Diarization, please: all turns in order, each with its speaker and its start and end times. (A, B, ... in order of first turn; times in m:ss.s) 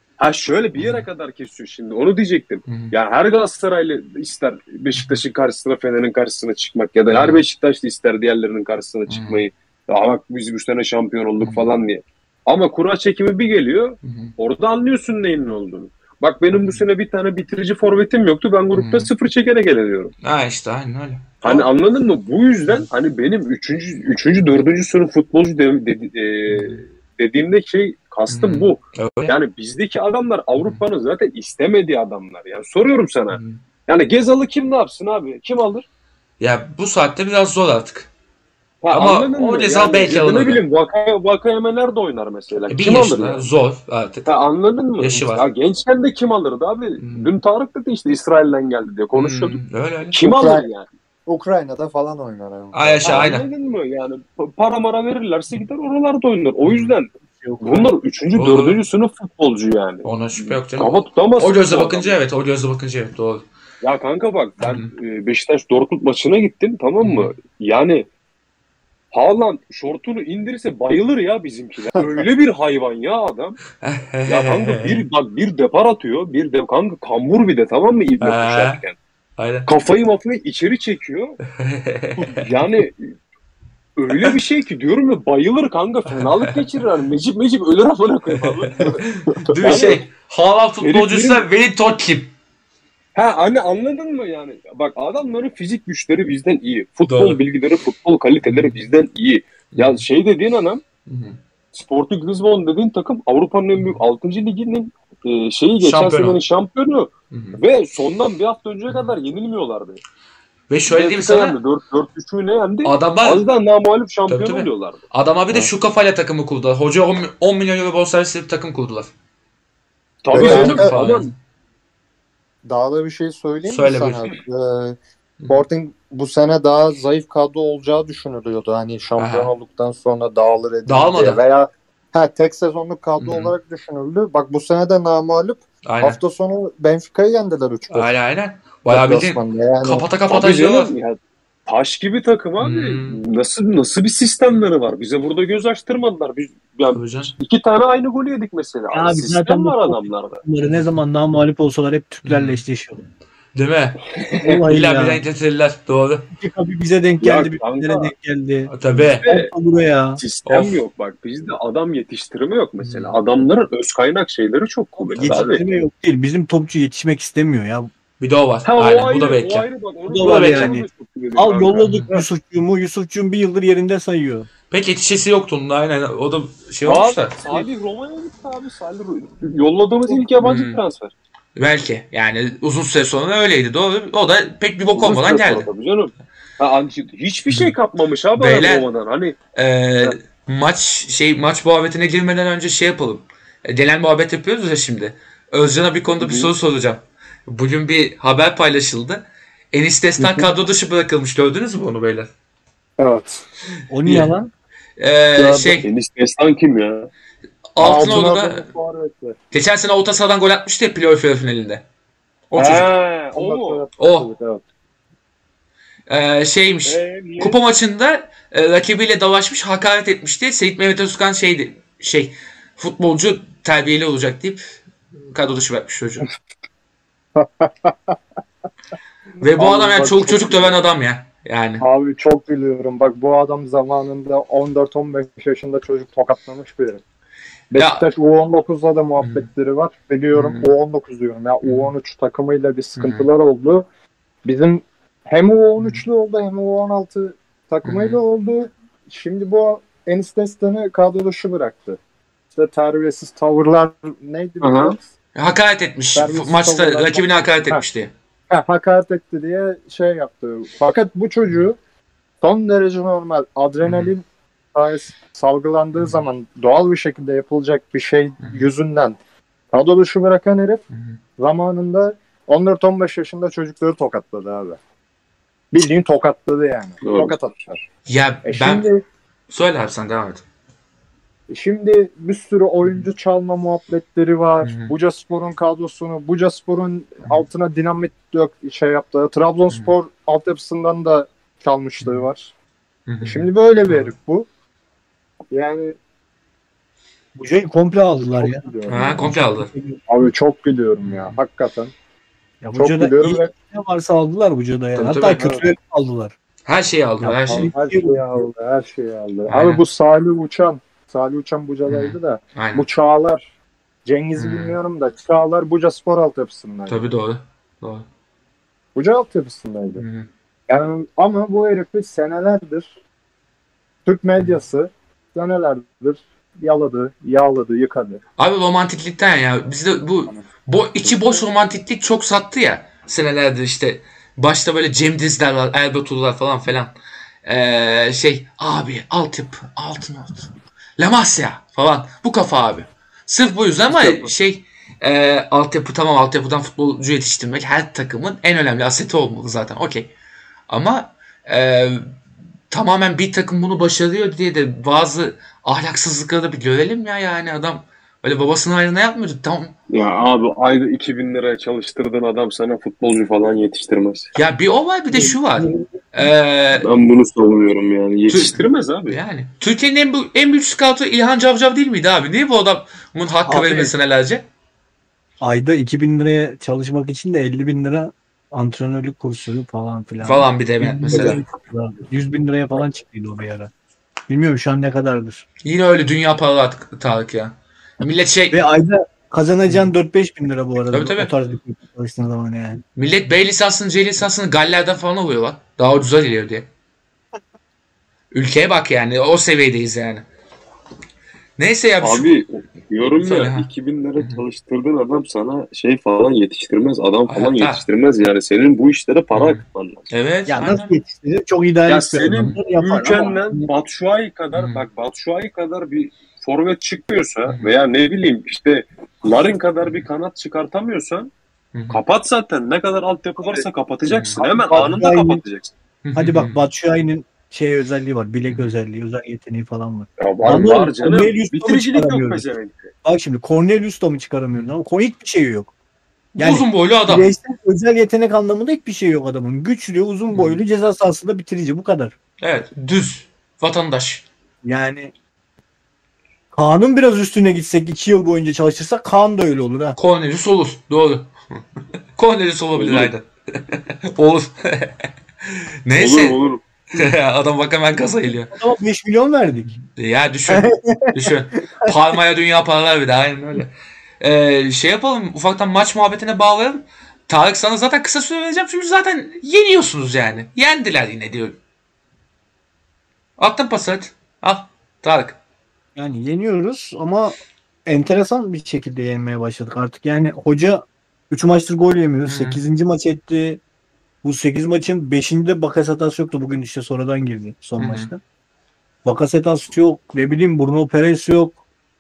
0:00.2-0:20.1 A
0:00.8-0:01.1 B
0:02.7-0:02.9 B
0:07.1-0:07.4 B
0:09.1-0:09.4 B
0:11.4-0:11.7 B
0:14.0-0:14.3 B
0:16.5-0:16.8 B
0:18.7-0:19.1 B
0:20.2-0:21.7 B
0:21.4-0:35.9 A
0:26.5-0:26.8 B
0:28.3-0:29.4 B
0:33.3-0:33.6 B
0:36.4-0:38.1 B
0:38.8-0:43.5 A
0:38.9-0:40.6 B
0:42.7-0:44.3 B
0:44.2-0:49.6 A
0:45.0-0:45.5 B
0:47.0-0:47.3 B
0:49.1-0:50.2 B
0:50.1-0:50.9 A
0:50.2-0:50.7 C
0:51.3-0:53.3 C
0:52.7-0:53.5 B
0:53.0-0:57.1 A
0:56.6-0:57.0 B
0:57.4-0:57.9 D
0:57.6-1:02.1 A
0:58.3-0:58.8 B
1:00.0-1:03.4 B
1:03.8-1:08.1 A
1:04.6-1:04.9 B
1:07.0-1:07.3 B
1:09.1-1:13.6 A
1:13.8-1:15.0 B
1:14.3-1:19.0 A
1:18.2-1:18.8 B
1:19.4-1:19.7 B
1:19.7-1:21.4 A
1:21.6-1:22.4 B
1:22.2-1:23.2 A
1:24.0-1:30.1 A
1:26.1-1:26.6 B
1:28.3-1:32.3 B
1:30.8-1:31.5 A
1:33.2-1:40.8 A
1:37.1-1:37.4 B
1:38.5-1:38.8 B
1:39.7-1:40.0 B
1:41.1-1:41.4 B
1:41.7-1:50.0 A
1:45.8-1:46.4 B
1:47.3-1:47.6 B
1:50.7-1:51.6 B
1:50.9-1:55.0 A
1:52.8-1:53.4 B
1:54.3-1:59.1 B
2:00.2-2:01.3 A
2:00.3-2:00.9 C
2:00.3-2:01.3 B
2:02.6-2:05.0 C
2:03.7-2:04.4 B
2:05.5-2:18.1 C
2:09.2-2:09.5 B
2:10.9-2:11.4 B
2:13.2-2:13.6 B
2:15.8-2:16.2 B
2:17.9-2:20.9 B
2:18.9-2:20.1 C
2:20.3-2:30.4 A
2:22.6-2:23.2 B
2:26.9-2:27.3 B
2:28.9-2:33.0 D
2:32.2-2:32.6 B
2:33.6-2:34.2 B
2:34.2-2:34.6 A
2:34.3-2:35.2 D
2:34.7-2:36.3 B
2:36.4-2:40.2 D
2:37.2-2:38.1 A
2:38.7-2:39.2 B
2:39.2-2:39.5 A
2:40.2-2:45.6 A
2:40.5-2:40.8 B
2:42.8-2:43.2 B
2:45.1-2:47.9 D
2:45.1-2:45.5 B
2:48.2-2:49.7 B
2:48.6-2:52.2 A
2:50.1-2:54.5 D
2:50.4-2:50.7 B
2:51.8-2:52.1 B
2:54.7-2:57.7 B
2:56.8-3:01.1 A
3:00.4-3:00.8 B
3:01.6-3:05.7 B
3:05.0-3:09.4 A
3:08.4-3:08.9 B
3:09.6-3:22.3 B
3:16.2-3:16.5 A
3:20.2-3:20.5 C
3:23.0-3:23.4 C
3:23.9-3:24.5 D
3:25.0-3:25.9 B
3:25.4-3:27.1 A
3:27.8-3:28.7 B
3:27.8-3:29.4 C
3:29.5-3:31.8 B
3:32.5-3:32.9 B
3:32.6-3:33.8 A
3:33.4-3:34.6 C
3:34.0-3:34.3 B
3:36.1-3:44.8 B
3:36.9-3:37.6 A
3:45.3-3:46.3 B
3:47.4-3:48.2 C
3:49.4-3:51.8 B
3:49.6-3:50.7 C
3:51.8-3:57.0 C
3:57.7-4:03.9 C
3:57.8-3:58.1 B
4:00.3-4:00.7 B
4:01.6-4:01.9 B
4:03.0-4:03.3 B
4:04.4-4:12.0 C
4:07.8-4:08.2 B
4:12.5-4:15.0 C
4:14.6-4:15.0 A
4:15.4-4:18.1 B
4:16.2-4:17.8 C
4:18.5-4:21.8 C
4:22.4-4:29.2 C
4:23.8-4:24.1 B
4:29.7-4:30.8 C
4:30.9-4:31.2 B
4:31.4-4:34.8 C
4:35.7-4:37.8 C
4:37.0-4:37.4 A
4:38.1-4:38.9 B
4:38.4-4:39.0 C
4:39.5-4:40.4 B
4:41.5-4:52.5 C
4:44.6-4:44.9 B
4:53.1-4:54.1 B
4:53.2-4:54.5 C
4:55.5-4:56.0 C
4:57.4-5:00.0 D
4:58.1-4:59.3 C
4:58.9-4:59.7 B
5:00.1-5:01.9 C
5:01.0-5:01.4 B
5:02.6-5:06.4 D
5:02.8-5:03.5 C
5:05.0-5:05.5 B
5:05.4-5:05.7 C
5:06.6-5:07.7 B
5:07.2-5:08.2 D
5:07.5-5:13.5 C
5:09.5-5:09.8 B
5:11.9-5:12.8 B
5:14.0-5:17.0 C
5:14.4-5:14.8 B
5:16.9-5:18.0 B
5:19.0-5:20.0 C
5:20.0-5:20.3 B
5:20.7-5:22.9 C
5:24.1-5:28.2 C
5:28.4-5:36.9 B
5:31.0-5:31.4 C
5:37.4-5:50.1 B
5:44.0-5:44.3 C
5:50.7-5:52.1 B
5:52.7-5:59.8 B
5:59.9-6:04.3 A
6:04.4-6:06.9 B
6:05.1-6:05.9 D
6:06.8-6:09.2 A
6:08.3-6:14.4 B
6:13.5-6:13.9 D
6:15.4-6:23.7 D
6:20.2-6:21.4 B
6:24.3-6:25.4 D
6:25.6-6:28.6 B
6:28.5-6:32.8 D
6:30.9-6:31.3 B
6:33.0-6:36.7 B
6:38.3-6:40.3 B
6:41.6-6:42.4 B
6:42.0-6:50.1 A
6:43.2-6:44.4 B
6:47.3-6:47.8 B
6:49.3-6:51.0 B
6:50.5-6:53.7 D
6:51.9-7:01.3 A
6:54.5-6:54.8 B
7:01.7-7:02.0 B
7:01.9-7:05.7 A
7:04.0-7:04.4 B
7:04.4-7:05.4 D
7:06.0-7:06.6 B
7:06.2-7:12.4 D
7:10.2-7:12.9 A
7:13.0-7:15.7 D
7:16.4-7:17.3 B
7:16.4-7:22.1 D
7:20.3-7:20.6 B
7:22.4-7:24.2 B
7:24.6-7:25.1 D
7:26.5-7:30.0 D
7:30.0-7:31.3 B
7:32.2-7:36.4 B
7:32.8-7:33.1 A
7:36.0-7:36.6 A
7:36.9-7:38.5 B
7:38.5-7:39.8 D
7:39.8-7:51.6 B
7:40.6-7:41.1 D
7:53.4-7:55.4 B
7:56.0-8:03.6 D
8:02.2-8:02.6 B
8:04.2-8:08.2 D
8:07.8-8:08.1 B
8:09.0-8:11.6 D